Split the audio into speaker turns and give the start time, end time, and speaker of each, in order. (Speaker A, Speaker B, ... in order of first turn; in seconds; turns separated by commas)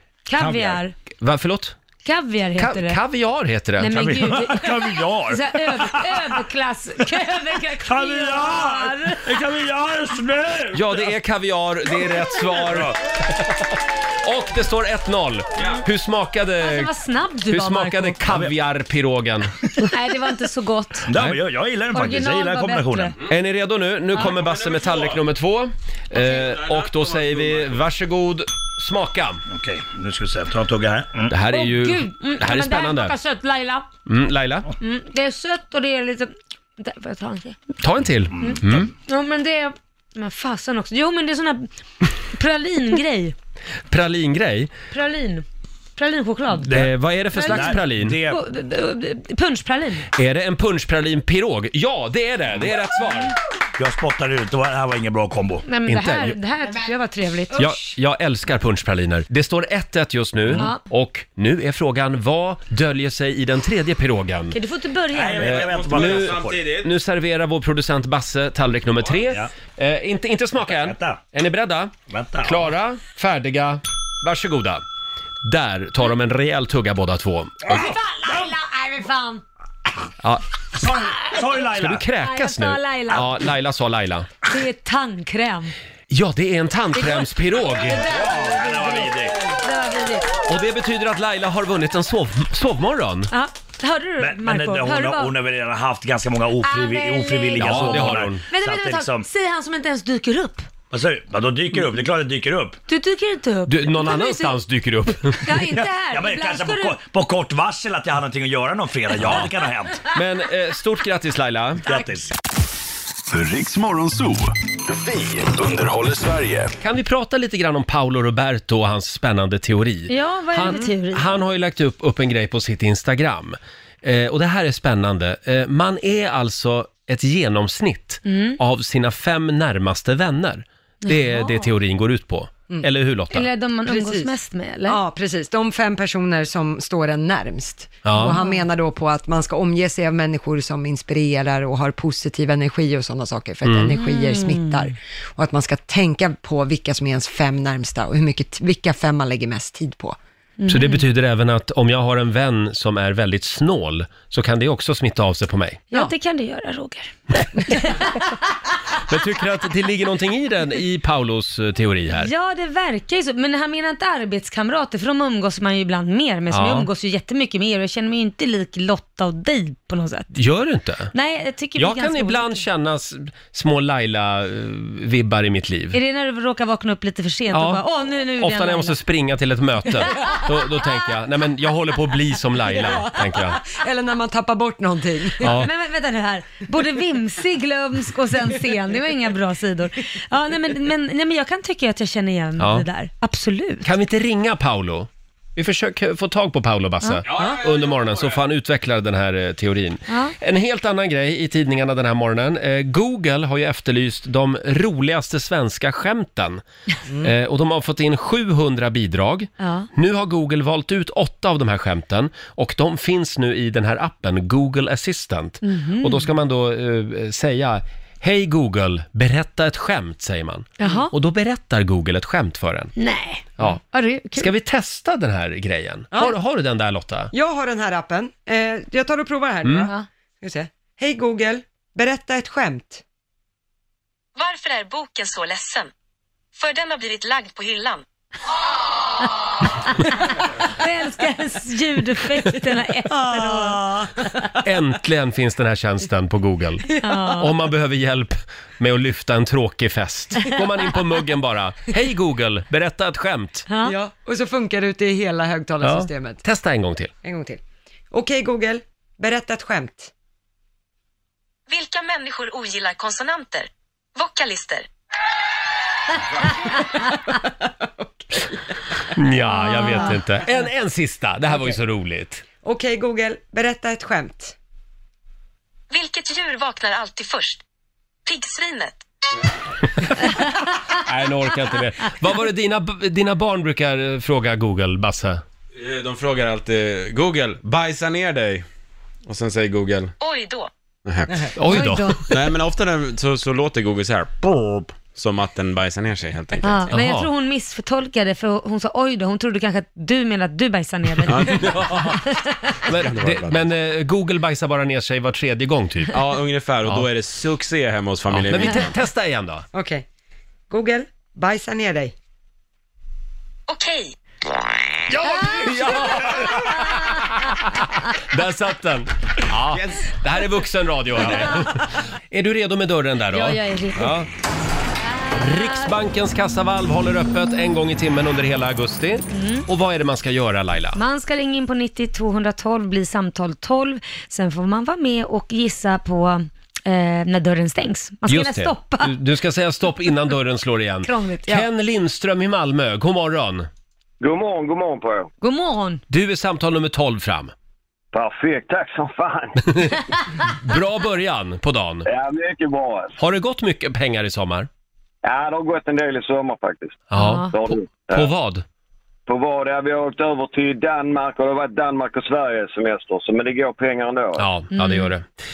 Speaker A: 0.3-0.9, Speaker B: 0.4-0.8, Speaker C: 1.2-1.8, Speaker A: 2.0-3.0, Speaker C: 2.6-4.3, Speaker A: 3.8-9.3, Speaker B: 4.0-6.4, Speaker B: 7.8-11.1, Speaker C: 10.7-16.9, Speaker B: 12.5-13.0, Speaker A: 16.6-18.2, Speaker C: 17.5-19.5, Speaker B: 18.3-18.6, Speaker A: 19.8-21.1, Speaker B: 21.1-23.1, Speaker C: 21.1-21.4, Speaker A: 21.9-23.1, Speaker C: 23.3-29.4, Speaker D: 24.1-25.2, Speaker D: 26.2-27.9, Speaker B: 29.5-31.4, Speaker C: 31.3-33.1, Speaker A: 31.5-33.9, Speaker C: 34.1-34.7, Speaker A: 34.8-37.6, Speaker C: 37.8-38.9, Speaker B: 38.3-38.9, Speaker A: 38.4-41.7, Speaker A: 42.3-43.4, Speaker C: 43.9-44.7, Speaker A: 44.9-45.5, Speaker A: 46.0-46.8, Speaker B: 46.6-48.4, Speaker C: 46.7-48.2, Speaker A: 47.3-50.1, Speaker C: 50.1-53.4, Speaker B: 53.8-55.7, Speaker A: 55.7-57.6, Speaker C: 55.9-56.4, Speaker C: 57.5-64.6, Speaker A: 60.5-60.8, Speaker A: 64.5-65.5, Speaker B: 65.1-66.7, Speaker D: 65.4-66.9, Speaker C: 65.4-74.8, Speaker B: 70.6-71.2, Speaker B: 72.1-72.7, Speaker C: 75.4-77.9, Speaker B: 77.7-78.5, Speaker A: 77.7-79.4, Speaker B: 80.8-82.1, Speaker C: 81.7-84.3, Speaker A: 82.2-83.3, Speaker A: 84.5-85.7, Speaker C: 86.1-88.0, Speaker A: 87.0-90.3, Speaker B: 88.0-89.5, Speaker C: 90.5-93.3, Speaker A: 93.3-95.3, Speaker B: 94.2-99.3, Speaker A: 96.6-100.7, Speaker C: 97.6-98.4, Speaker B: 100.9-102.8, Speaker A: 102.9-104.6, Speaker C: 103.7-105.5, Speaker A: 105.4-107.0, Speaker B: 105.7-110.0, Speaker C: 109.2-109.5, Speaker C: 110.1-111.9, Speaker B: 111.8-112.3, Speaker E: 113.3-116.7, Speaker C: 116.8-133.5, Speaker A: 120.1-121.3, Speaker A: 128.3-128.6, Speaker A: 131.0-131.7, Speaker A: 133.3-135.0, Speaker F: 133.9-134.3, Speaker F: 134.9-150.2, Speaker C: 138.1-138.4, Speaker A: 138.2-138.6, Speaker C: 143.7-143.9, Speaker A: 143.9-144.9, Speaker A: 150.6-151.0, Speaker C: 150.7-155.8, Speaker A: 155.9-158.2, Speaker C: 159.0-162.3, Speaker A: 162.1-170.3, Speaker C: 166.5-166.9, Speaker C: 170.3-171.1, Speaker A: 171.1-172.6, Speaker C: 171.8-176.0, Speaker A: 175.9-179.0, Speaker C: 177.5-177.8, Speaker C: 178.4-183.6, Speaker F: 183.7-185.6, Speaker C: 185.4-185.7, Speaker A: 185.4-193.9, Speaker C: 192.6-192.8, Speaker C: 193.8-206.6, Speaker D: 197.2-198.4, Speaker A: 200.1-200.3, Speaker C: 207.2-222.9, Speaker A: 209.6-209.9, Speaker A: 215.6-216.3, Speaker A: 220.8-221.1, Speaker A: 223.0-224.5, Speaker C: 224.4-227.3, Speaker F: 227.3-233.0, Speaker C: 229.7-229.9, Speaker G: 234.4-235.9, Speaker G: 236.6-238.1, Speaker A: 240.1-244.1, Speaker F: 243.1-244.1, Speaker C: 244.6-253.7, Speaker A: 247.0-247.5, Speaker A: 253.7-253.9, Speaker F: 253.8-256.4, Speaker C: 255.8-257.1, Speaker F: 257.2-260.1, Speaker G: 261.7-264.9, Speaker F: 267.4-268.6, Speaker C: 269.1-272.4, Speaker A: 269.6-270.1, Speaker F: 272.6-274.6, Speaker G: 275.9-277.6, Speaker G: 278.3-279.1, Speaker C: 281.0-285.4, Speaker D: 285.8-288.7, Speaker D: 289.3-290.1, Speaker G: 290.2-290.7, Speaker D: 291.1-291.5, Speaker C: 291.6-292.3, Speaker A: 291.7-292.4, Speaker D: 292.3-296.9, Speaker A: 296.6-301.9, Speaker C: 296.9-297.3, Speaker D: 301.3-302.2, Speaker C: 301.4-302.2, Speaker D: 302.8-303.7, Speaker C: 302.9-306.2, Speaker D: 306.1-308.9, Speaker C: 308.3-309.6, Speaker F: 309.7-310.1, Speaker F: 310.7-312.1, Speaker G: 313.7-314.1, Speaker C: 315.1-324.3, Speaker A: 323.3-324.1, Speaker A: 325.2-325.9, Speaker C: 325.3-331.0, Speaker A: 329.3-329.7, Speaker A: 331.0-339.2, Speaker C: 338.3-343.7, Speaker A: 341.1-341.7, Speaker H: 344.2-345.3, Speaker A: 345.4-346.0, Speaker C: 346.1-347.5, Speaker H: 348.1-350.0, Speaker C: 350.6-352.1, Speaker H: 352.1-353.2, Speaker C: 353.2-354.7, Speaker H: 355.2-358.3, Speaker C: 357.1-358.6, Speaker A: 357.2-357.5, Speaker H: 359.3-364.4, Speaker C: 364.4-365.3, Speaker A: 364.7-365.1